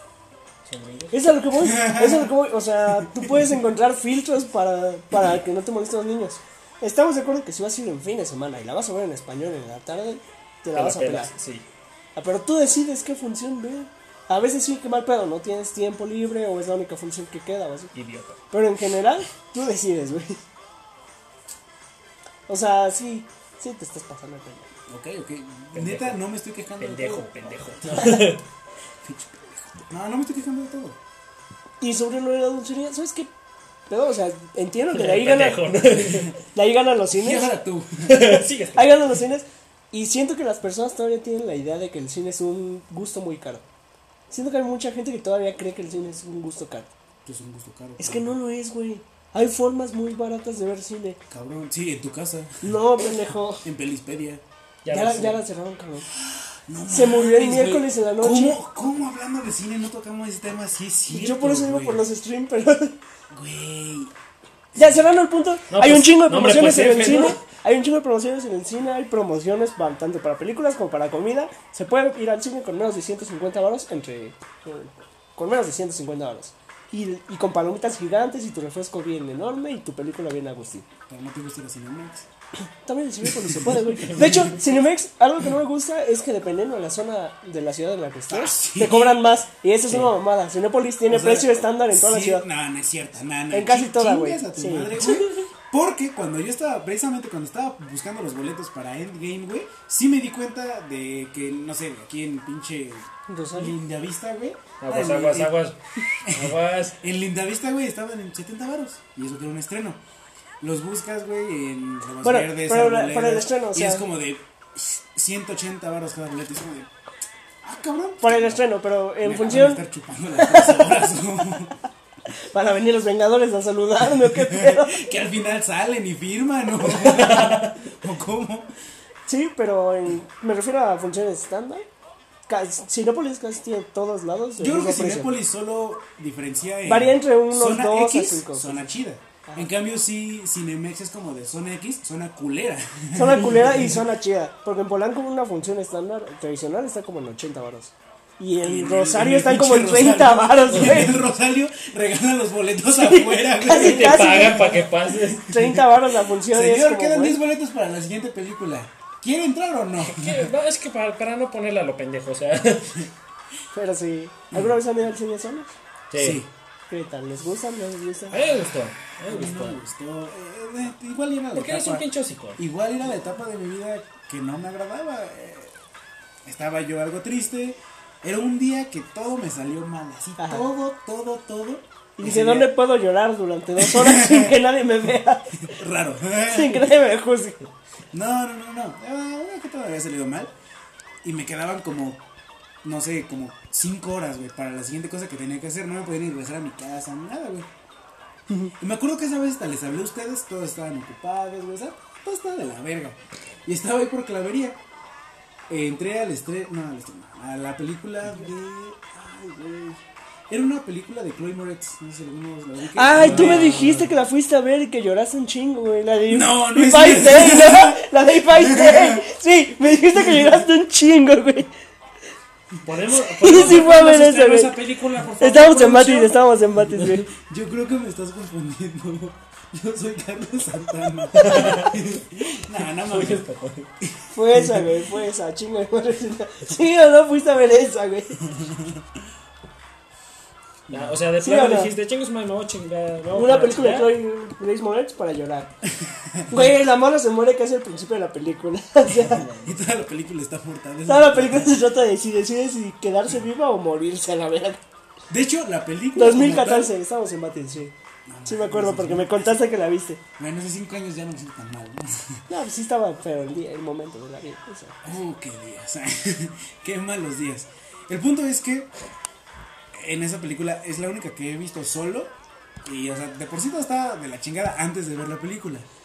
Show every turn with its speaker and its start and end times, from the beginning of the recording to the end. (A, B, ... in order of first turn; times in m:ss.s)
0:00.6-0:01.3 A
0:01.1-0:11.3 B
0:01.6-0:02.3 C
0:10.8-0:11.6 A
0:12.2-0:17.9 B
0:17.9-0:18.4 A
0:18.5-0:20.4 B
0:22.5-0:24.7 B
0:24.9-0:28.3 C
0:25.7-0:26.3 A
0:26.8-0:28.4 A
0:29.0-0:31.0 C
0:31.8-0:33.3 B
0:33.9-0:35.7 B
0:34.9-0:36.3 A
0:36.0-0:36.3 C
0:36.5-0:37.5 B
0:37.1-0:38.3 C
0:38.0-0:39.2 A
0:38.8-0:43.6 B
0:44.3-0:46.9 B
0:47.2-0:48.4 C
0:48.0-0:51.2 B
0:51.3-0:53.0 C
0:52.6-0:53.6 B
0:53.6-0:54.4 C
0:54.8-0:55.4 A
0:54.9-0:56.1 B
0:56.1-1:02.0 C
0:56.9-0:58.6 B
1:01.1-1:03.0 B
1:03.3-1:04.1 C
1:04.7-1:05.1 C
1:04.8-1:20.9 B
1:05.7-1:07.4 A
1:21.1-1:22.3 C
1:22.8-1:32.5 B
1:23.2-1:24.6 C
1:23.8-1:24.6 A
1:28.3-1:29.3 C
1:29.9-1:30.2 A
1:31.1-1:45.6 C
1:33.5-1:35.5 B
1:43.3-1:43.8 B
1:44.8-1:47.0 A
1:46.2-1:50.0 C
1:50.6-1:56.9 C
1:52.2-1:54.0 B
1:57.6-1:58.6 C
1:58.2-2:01.2 B
1:59.2-2:01.8 C
2:02.5-2:05.0 B
2:04.1-2:08.7 C
2:07.0-2:07.7 A
2:09.3-2:11.9 B
2:12.5-2:15.4 B
2:14.6-2:24.0 C
2:16.9-2:18.9 B
2:19.5-2:19.7 B
2:23.1-2:31.2 B
2:28.6-2:40.5 C
2:30.7-2:31.1 A
2:32.9-2:37.4 B
2:33.7-2:35.5 A
2:40.0-2:43.1 A
2:43.7-2:45.7 B
2:46.1-2:46.4 A
2:46.2-2:46.5 C
2:46.9-2:48.4 B
2:48.3-2:49.8 A
2:49.3-2:52.1 C
2:51.5-2:52.6 A
2:52.6-2:55.8 C
2:56.4-3:02.7 C
3:00.4-3:00.6 B
3:02.2-3:05.8 B
3:03.8-3:04.7 C
3:05.6-3:06.9 C
3:06.4-3:07.6 B
3:08.1-3:10.5 C
3:11.2-3:12.2 C
3:12.8-3:17.7 C
3:18.5-3:18.7 B
3:18.8-3:24.8 C
3:25.7-3:34.1 C
3:32.9-3:41.7 B
3:33.1-3:34.1 A
3:36.3-3:39.3 C
3:40.1-3:40.7 C
3:42.8-3:44.4 A
3:43.1-3:44.8 B
3:43.4-3:46.4 C
3:45.4-3:47.3 B
3:46.9-3:53.5 C
3:51.4-3:52.0 A
3:51.4-3:51.8 B
3:52.9-3:53.9 A
3:54.0-3:54.8 C
3:54.3-3:58.4 B
3:58.5-3:59.0 C
4:00.9-4:01.2 C
4:00.9-4:04.2 A
4:01.4-4:01.9 B
4:03.3-4:05.7 B
4:06.0-4:06.6 C
4:06.5-4:09.5 B
4:09.2-4:11.8 C
4:09.2-4:09.7 A
4:11.1-4:14.8 B
4:15.3-4:16.9 C
4:16.2-4:17.9 B
4:18.3-4:19.6 C
4:18.5-4:20.2 B
4:20.4-4:22.4 C
4:22.5-4:25.0 B
4:25.0-4:28.9 C
4:29.9-4:35.9 C